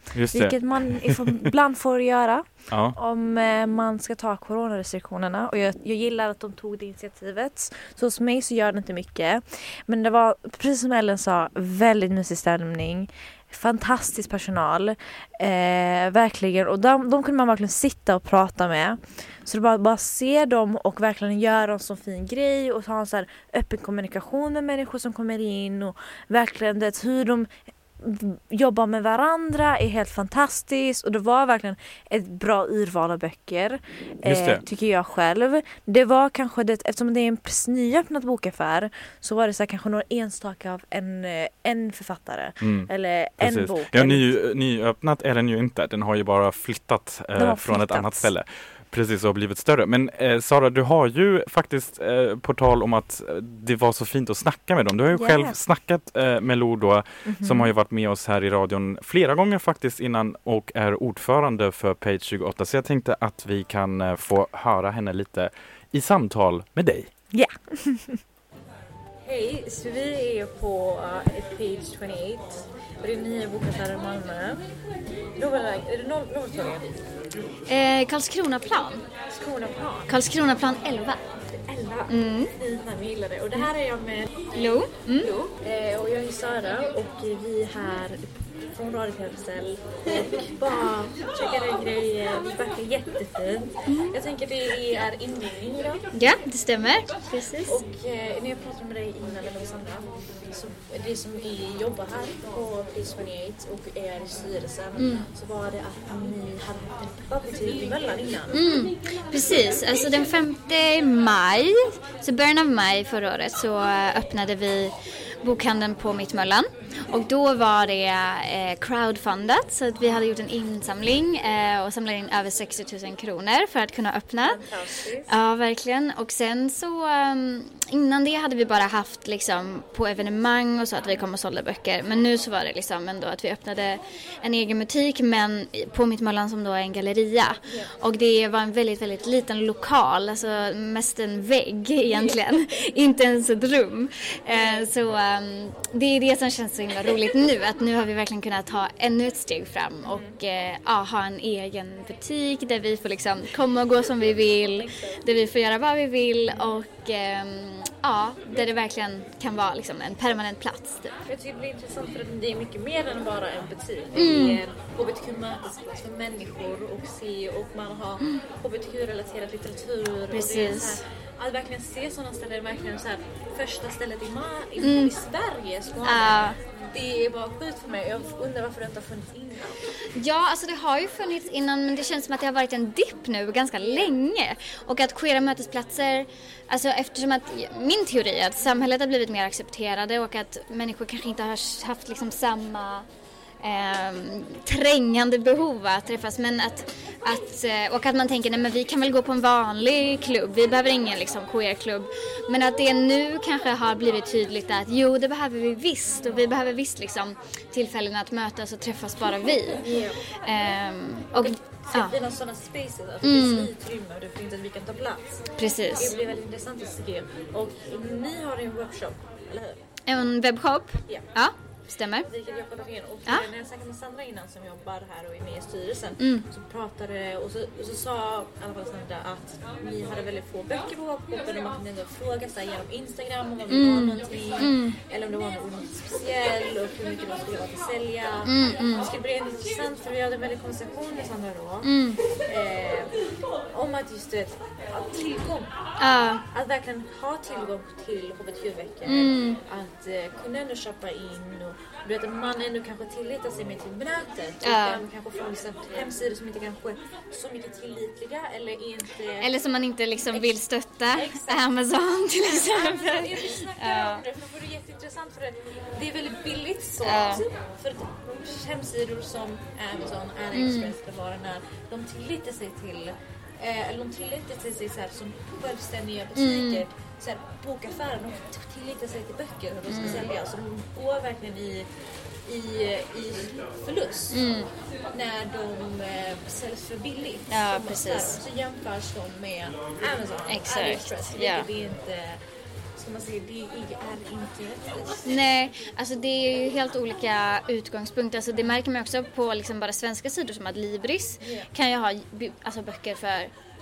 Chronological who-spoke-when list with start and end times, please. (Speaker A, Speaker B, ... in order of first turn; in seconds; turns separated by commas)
Speaker A: 0.1-1.3, Speaker B: 0.3-44.3, Speaker A: 2.7-3.0, Speaker A: 34.2-34.6, Speaker A: 42.6-42.9, Speaker A: 43.4-67.1, Speaker B: 47.4-48.3, Speaker B: 55.1-55.6, Speaker B: 57.3-57.7, Speaker B: 67.3-68.2, Speaker B: 69.2-74.6, Speaker B: 75.4-77.1, Speaker C: 77.7-79.0, Speaker B: 79.3-80.1, Speaker C: 80.1-81.2, Speaker B: 81.5-84.5, Speaker C: 82.1-82.5, Speaker C: 84.5-85.3, Speaker B: 85.2-96.1, Speaker C: 93.9-94.2, Speaker C: 96.1-97.8, Speaker B: 97.7-108.6, Speaker C: 105.0-105.3, Speaker C: 108.5-124.6, Speaker B: 124.4-125.3, Speaker C: 125.3-161.2, Speaker B: 142.1-142.4, Speaker B: 144.5-144.9, Speaker B: 150.1-150.3, Speaker B: 154.5-155.2, Speaker B: 161.3-179.8, Speaker C: 164.2-164.6, Speaker C: 170.3-171.0, Speaker C: 174.8-175.1, Speaker C: 176.0-176.6, Speaker C: 180.2-193.1, Speaker B: 183.8-184.1, Speaker C: 193.6-209.9, Speaker B: 209.8-210.2, Speaker C: 210.4-212.2, Speaker B: 211.4-219.8, Speaker C: 213.2-213.7, Speaker C: 215.6-216.1, Speaker C: 220.1-222.3, Speaker B: 222.2-241.9, Speaker C: 226.2-226.4, Speaker C: 233.7-235.0, Speaker C: 238.4-239.1, Speaker C: 241.8-242.2, Speaker B: 242.5-243.2, Speaker B: 243.7-245.7, Speaker C: 246.0-246.4, Speaker B: 246.5-259.5, Speaker C: 249.1-249.6, Speaker C: 254.6-255.1, Speaker C: 259.4-264.2, Speaker B: 260.1-260.6, Speaker B: 261.1-261.6, Speaker B: 262.4-281.9, Speaker C: 267.1-267.4, Speaker C: 270.5-270.9, Speaker C: 276.4-276.8, Speaker C: 279.9-280.3, Speaker B: 282.5-284.4, Speaker C: 284.3-284.7, Speaker B: 285.1-292.4, Speaker C: 287.5-288.4, Speaker C: 290.5-291.7, Speaker B: 293.0-295.4, Speaker C: 295.2-303.5, Speaker B: 301.4-301.7